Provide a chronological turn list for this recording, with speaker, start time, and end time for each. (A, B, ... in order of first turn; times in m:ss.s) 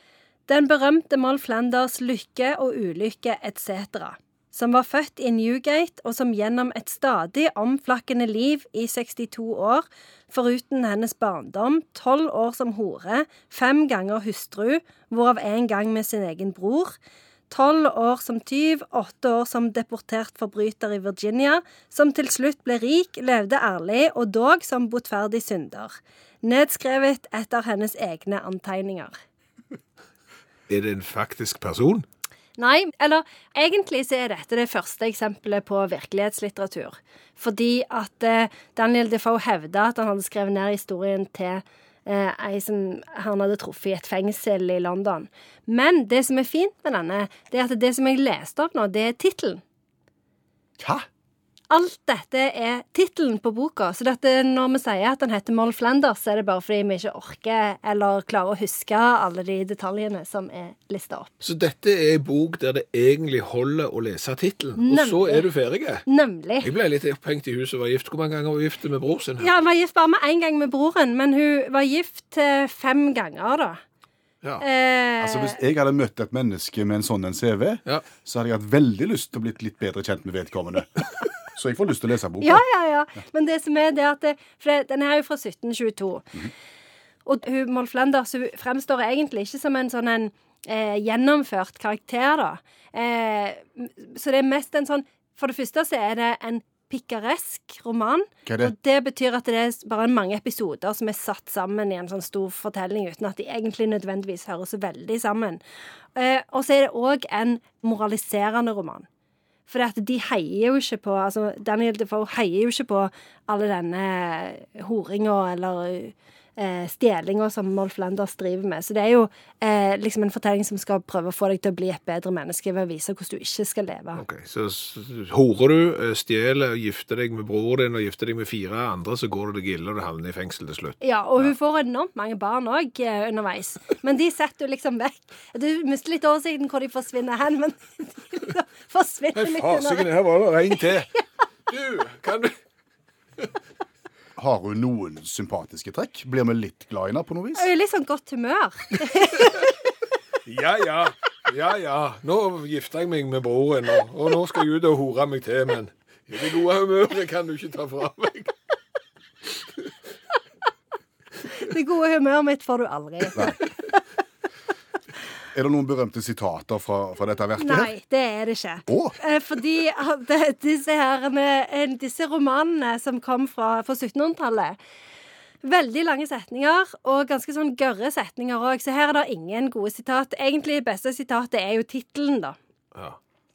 0:00.5-0:17.0 A
0:17.5-0:29.2 A
0:30.7-0:32.0 B
0:32.6-0:49.6 A
0:50.8-0:51.0 C
0:51.7-1:01.3 A
1:01.4-1:06.0 B
1:04.8-1:05.5 A
1:06.0-1:06.7 A
1:06.6-1:09.5 B
1:09.4-1:13.8 A
1:14.6-1:15.6 A
1:15.2-1:22.6 C
1:22.4-1:26.5 A
1:27.2-1:45.6 A
1:38.5-1:38.7 C
1:46.2-1:49.1 A
1:49.7-2:04.2 A
2:04.2-2:11.5 B
2:11.0-2:20.1 A
2:19.4-2:21.1 B
2:21.7-2:22.5 B
2:24.4-2:27.7 C
2:27.6-2:29.7 A
2:30.4-2:38.5 B
2:41.5-2:44.0 A
2:45.5-2:47.9 C
2:47.6-2:54.8 A
2:48.9-2:49.1 C
2:55.6-3:02.6 A